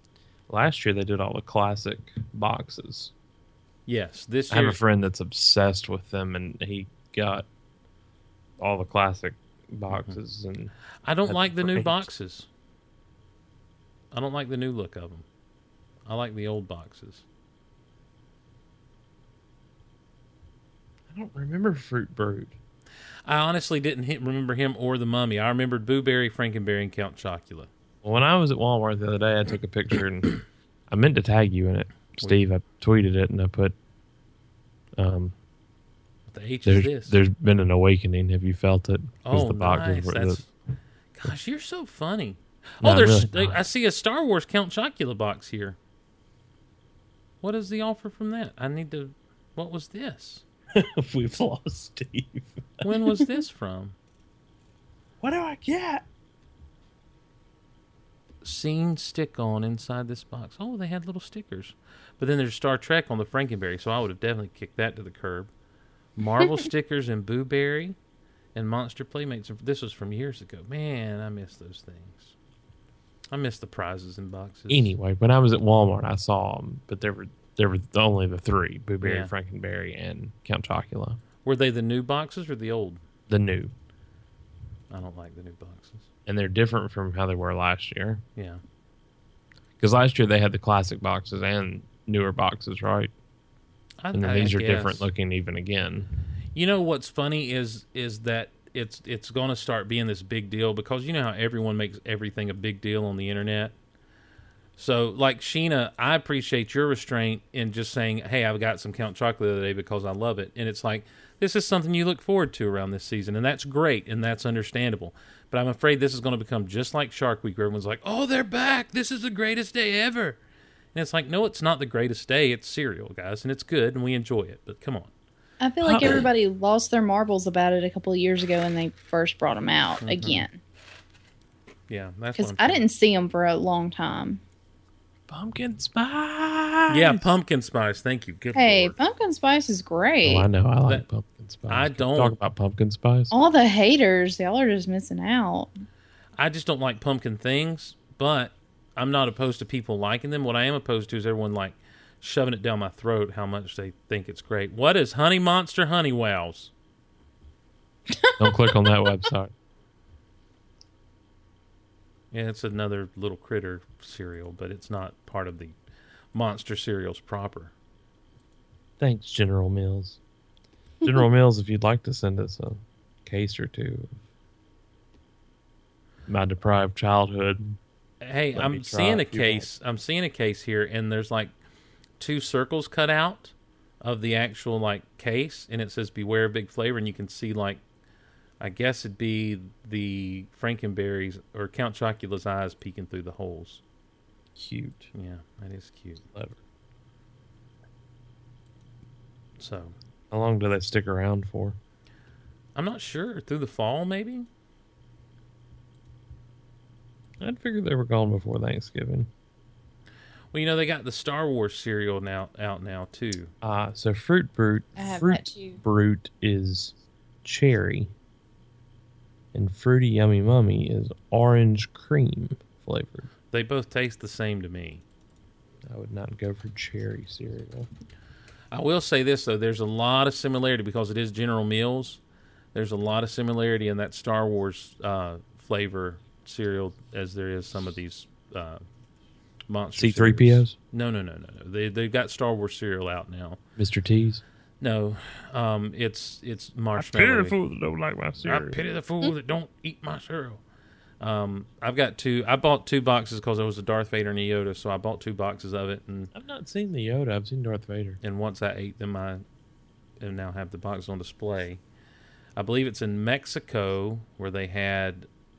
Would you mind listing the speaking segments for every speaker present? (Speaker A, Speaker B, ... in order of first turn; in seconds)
Speaker A: 0.5-3.1, 4.5-7.5, 8.6-10.7, 11.3-12.1, 21.1-22.5, 28.0-33.7, 35.0-35.3, 36.6-40.4, 42.8-43.6, 50.7-53.4, 55.2-56.0, 74.7-81.2, 83.3-83.7, 86.2-88.2, 89.8-93.1, 94.1-96.1, 125.8-126.3, 135.3-137.3, 140.2-143.3, 158.4-159.5, 169.0-170.2, 171.0-174.1, 176.3-177.8, 178.5-179.7, 194.6-195.1, 196.3-196.6, 200.3-201.8, 207.4-209.3, 213.6-218.1, 219.5-223.3, 225.8-227.9, 240.0-240.7, 243.8-244.4, 247.0-248.8, 256.3-258.2
Speaker B: 3.9-4.8, 11.0-12.5, 14.1-15.2, 16.1-17.2, 23.2-27.7, 36.3-37.2, 39.2-40.5, 41.1-45.8, 47.4-50.4, 52.8-53.9, 58.4-65.5, 66.2-68.0, 68.5-72.3, 73.3-74.9, 79.0-79.3, 81.4-83.0, 84.9-86.1, 88.3-88.6, 94.0-95.1, 96.5-103.7, 104.8-120.4, 120.9-125.1, 130.0-130.4, 131.9-132.8, 136.9-138.9, 141.7-142.4, 146.4-156.7, 162.3-165.8, 166.3-167.7, 178.2-181.5, 182.2-187.8, 188.6-193.8, 195.1-196.2, 199.6-199.9, 202.7-204.5, 210.5-213.5, 223.5-225.0, 228.7-232.2, 232.7-238.8, 239.7-243.6, 244.8-247.6, 248.4-250.6, 251.2-256.3, 258.2-259.4, 260.2-261.8, 262.6-265.3
Speaker C: 125.6-130.6, 132.4-134.4, 138.6-140.5, 143.3-145.7, 158.1-158.9, 215.0-215.8